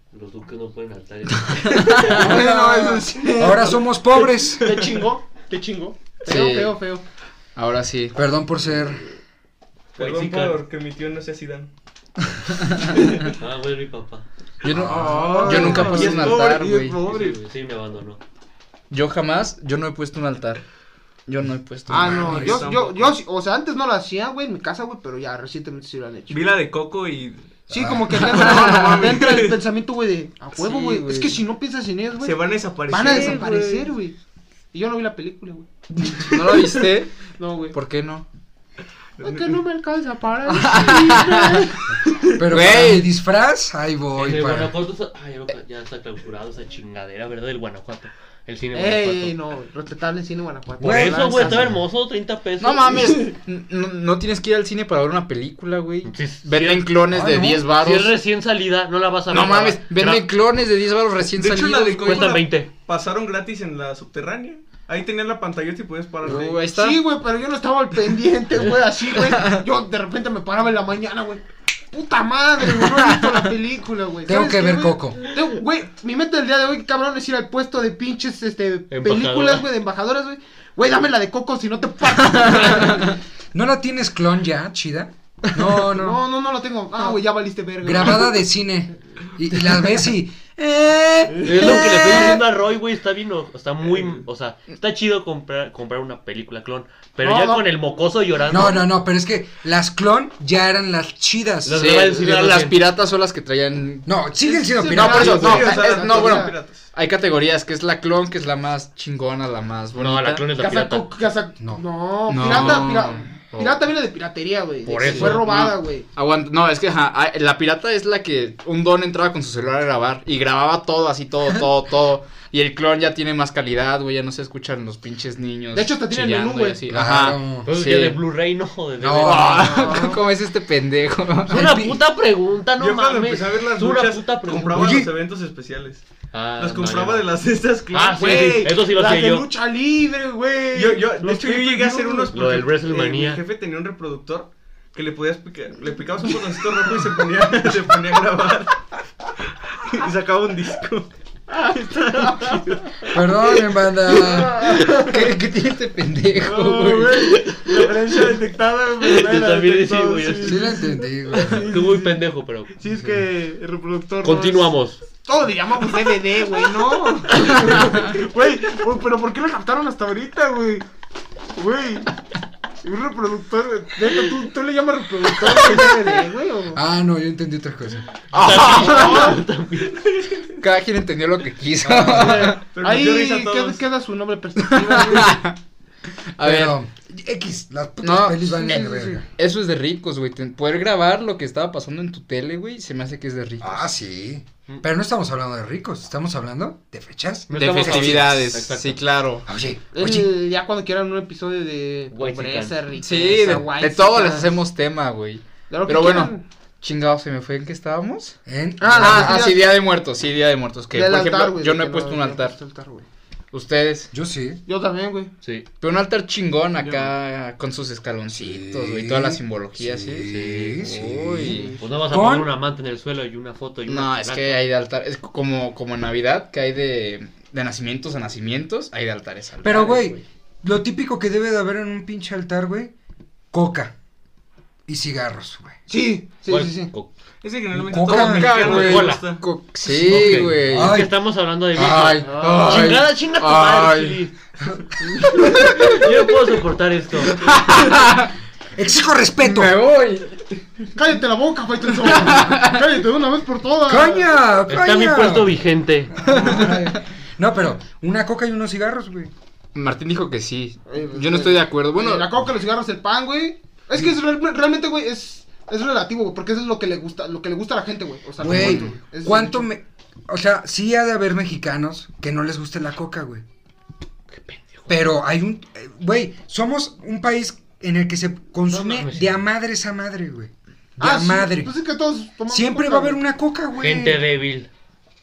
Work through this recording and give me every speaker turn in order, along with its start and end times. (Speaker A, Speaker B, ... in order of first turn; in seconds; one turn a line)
Speaker A: 0.1-2.1
Speaker B: 1.6-2.3
Speaker C: 2.0-7.0
Speaker D: 2.1-4.7
Speaker E: 4.6-5.0
Speaker B: 6.3-6.8
Speaker B: 7.5-8.2
Speaker D: 8.1-9.0
Speaker E: 9.9-11.7
Speaker A: 10.0-10.6
Speaker B: 12.4-13.3
Speaker E: 12.9-13.3
Speaker A: 13.3-14.2
Speaker B: 14.6-17.1
Speaker D: 14.7-16.0
Speaker C: 14.9-17.3
Speaker E: 14.9-17.4
Speaker A: 17.0-18.2
Speaker B: 18.9-20.6
Speaker B: 21.3-22.6
Speaker C: 21.9-26.4
Speaker D: 22.0-22.6
Speaker E: 22.1-23.1
Speaker E: 26.3-27.6
Speaker C: 27.7-34.1
Speaker D: 27.7-28.1
Speaker B: 28.1-28.8
Speaker E: 28.1-29.6
Speaker B: 30.6-31.4
Speaker E: 32.2-33.9
Speaker B: 33.1-33.4
Speaker C: 34.7-36.2
Speaker B: 36.0-37.1
Speaker E: 36.2-36.6
Speaker C: 37.4-37.8
Speaker B: 37.7-38.2
Speaker E: 39.2-39.6
Speaker C: 39.2-41.8
Speaker B: 40.5-41.8
Speaker D: 42.4-44.7
Speaker B: 42.4-43.1
Speaker A: 44.1-49.3
Speaker C: 48.7-51.7
Speaker D: 50.8-51.8
Speaker A: 50.8-53.1
Speaker B: 52.6-58.1
Speaker A: 56.0-56.9
Speaker D: 57.1-57.6
Speaker A: 57.8-60.2
Speaker B: 59.3-62.4
Speaker E: 61.3-66.6
Speaker A: 62.0-62.7
Speaker B: 66.2-67.0
Speaker C: 66.2-83.2
Speaker B: 69.1-69.6
Speaker B: 72.8-73.3
Speaker D: 74.2-75.2
Speaker A: 78.9-79.7
Speaker B: 82.2-83.1
Speaker D: 83.5-86.2
Speaker C: 85.8-88.4
Speaker D: 87.8-92.4
Speaker A: 91.4-98.9
Speaker E: 93.9-94.2
Speaker C: 97.2-97.7
Speaker D: 98.5-101.8
Speaker A: 101.6-102.8
Speaker B: 101.7-104.1
Speaker D: 104.0-105.7
Speaker C: 104.4-106.5
Speaker B: 104.9-110.4
Speaker E: 105.2-106.8
Speaker A: 109.9-111.1
Speaker C: 110.6-116.0
Speaker B: 112.3-113.4
Speaker A: 114.9-115.5
Speaker B: 114.9-128.2
Speaker C: 125.7-126.8
Speaker D: 126.9-127.7
Speaker A: 127.6-130.0
Speaker D: 129.0-129.8
Speaker B: 129.2-131.7
Speaker C: 129.6-130.2
Speaker D: 131.5-132.0
Speaker A: 131.5-135.0
Speaker E: 132.8-136.0
Speaker D: 134.5-135.1
Speaker A: 136.3-137.3
Speaker E: 136.6-138.7
Speaker A: 137.9-139.5
Speaker C: 138.1-142.3
Speaker E: 140.7-148.8
Speaker A: 142.3-143.4
Speaker E: 149.4-151.1
Speaker C: 151.5-153.2
Speaker E: 151.9-152.6
Speaker D: 153.1-154.6
Speaker C: 154.1-155.2
Speaker B: 154.6-157.2
Speaker C: 156.4-160.7
Speaker A: 157.2-157.7
Speaker A: 159.0-162.7
Speaker D: 160.4-161.6
Speaker C: 161.3-164.7
Speaker A: 164.2-165.0
Speaker C: 165.2-170.8
Speaker C: 171.5-172.1
Speaker C: 172.8-176.8
Speaker D: 176.7-178.1
Speaker A: 178.3-180.0
Speaker B: 178.3-179.3
Speaker C: 178.6-179.4
Speaker E: 179.9-180.5
Speaker B: 180.6-182.6
Speaker E: 182.1-183.8
Speaker C: 182.1-185.4
Speaker B: 184.6-185.6
Speaker B: 186.3-186.8
Speaker D: 186.4-189.2
Speaker B: 188.0-193.9
Speaker C: 188.6-189.2
Speaker D: 193.6-198.2
Speaker A: 197.5-199.0
Speaker B: 197.5-199.5
Speaker D: 199.5-200.2
Speaker C: 199.9-204.5
Speaker A: 202.1-202.8
Speaker B: 203.0-208.4
Speaker C: 205.7-206.4
Speaker D: 208.4-209.4
Speaker C: 208.8-209.7
Speaker B: 208.9-212.5
Speaker C: 210.9-213.1
Speaker B: 213.5-214.1
Speaker D: 214.1-214.6
Speaker C: 214.7-215.3
Speaker B: 215.8-221.8
Speaker E: 216.8-217.1
Speaker D: 218.3-222.5
Speaker A: 220.3-220.8
Speaker C: 221.4-221.8
Speaker A: 221.8-224.6
Speaker B: 223.9-230.2
Speaker D: 229.6-232.9
Speaker D: 233.5-233.9
Speaker D: 234.9-235.8
Speaker C: 235.9-236.9
Speaker A: 236.4-237.1
Speaker E: 237.4-239.4
Speaker D: 237.7-238.7
Speaker B: 238.0-241.0
Speaker A: 238.3-239.4
Speaker D: 239.8-241.1
Speaker A: 240.0-244.3
Speaker B: 241.8-244.2
Speaker D: 241.8-243.0
Speaker C: 242.2-242.7
Speaker B: 245.2-246.1
Speaker A: 245.4-247.4
Speaker B: 247.2-248.3
Speaker D: 248.8-249.8
Speaker B: 249.4-250.3
Speaker C: 250.9-254.3
Speaker B: 252.0-252.9
Speaker D: 253.9-255.5
Speaker A: 254.7-256.2
Speaker D: 256.2-259.3
Speaker B: 256.2-256.9
Speaker B: 259.7-262.3
Speaker C: 260.9-269.7
Speaker D: 268.4-273.4
Speaker B: 268.5-268.9
Speaker A: 274.3-274.9
Speaker D: 274.9-281.7
Speaker A: 278.7-279.4
Speaker C: 281.0-283.2
Speaker D: 282.5-284.2
Speaker A: 283.8-284.7